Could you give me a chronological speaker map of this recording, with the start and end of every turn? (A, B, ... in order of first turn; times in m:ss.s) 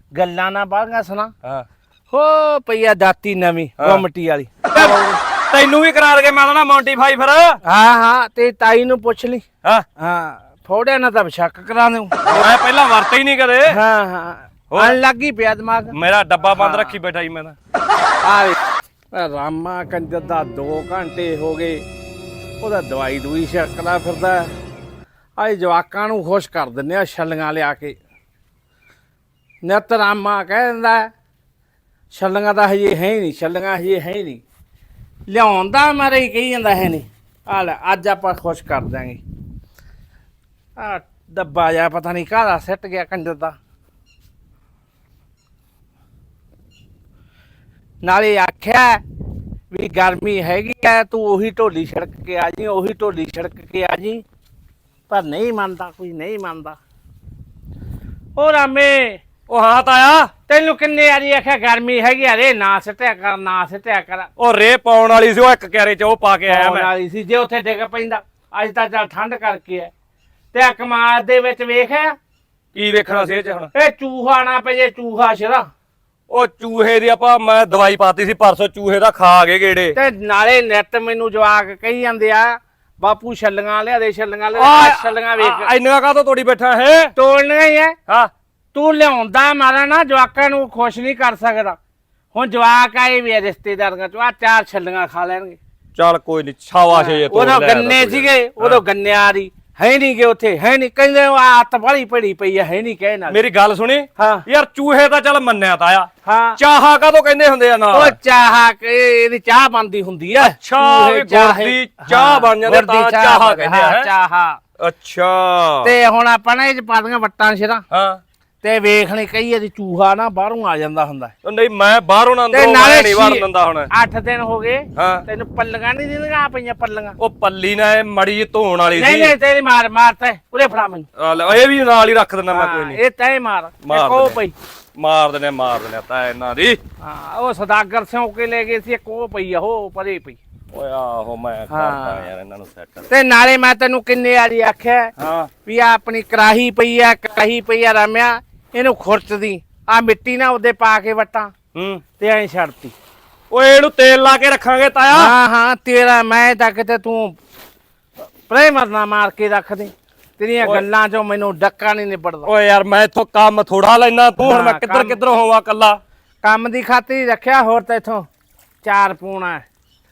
0:00.2-0:01.3 A
0:02.1-0:05.2 A
0:04.7-0:07.6 B
0:07.6-0:09.4 A
0:10.0-0:12.4 A
0:12.3-0:13.8 B
0:13.7-0:15.9 A
0:14.7-0:15.0 B
0:15.9-0:17.6 B
0:16.6-0:16.9 A
0:18.2-0:18.6 A
0:19.1-0:21.8 A
0:22.6-0:24.5 A
0:25.4-0:28.0 A
0:29.6-0:31.1 A
0:32.1-0:34.4 A
0:35.3-0:39.2 A
0:40.8-0:43.6 A
0:48.0-0:49.0 A
0:49.7-0:54.2 A
0:55.1-0:56.8 A
0:58.4-0:59.2 A
0:59.5-1:00.3 B
1:00.5-1:04.3 A
1:04.4-1:06.9 B
1:06.5-1:09.9 A
1:10.5-1:12.2 A
1:12.7-1:13.7 B
1:13.7-1:15.7 A
1:16.3-1:20.0 B
1:20.0-1:25.7 A
1:24.6-1:27.1 B
1:27.2-1:28.0 A
1:28.7-1:31.8 A
1:32.3-1:35.6 A
1:36.0-1:38.8 B
1:36.9-1:43.4 A
1:43.3-1:48.2 B
1:44.2-1:44.4 A
1:46.2-1:46.6 A
1:47.9-1:54.6 A
1:50.4-1:54.1 B
1:54.8-1:55.9 B
1:55.8-1:57.8 A
1:57.9-1:58.2 B
1:58.6-2:01.3 A
2:01.4-2:03.9 B
2:02.5-2:07.2 A
2:05.0-2:05.2 B
2:07.2-2:09.4 B
2:09.0-2:11.1 A
2:11.2-2:13.0 B
2:12.5-2:14.6 A
2:13.8-2:14.4 B
2:15.0-2:16.8 B
2:17.0-2:20.4 A
2:20.7-2:23.1 B
2:21.7-2:22.3 A
2:23.1-2:25.1 A
2:25.2-2:25.5 B
2:25.6-2:31.5 A
2:31.8-2:32.0 B
2:32.2-2:33.0 A
2:33.5-2:35.3 B
2:35.1-2:37.4 A
2:38.5-2:42.5 A
2:42.5-2:46.0 B
2:44.4-2:45.2 A
2:46.4-2:48.3 A
2:48.8-2:49.7 A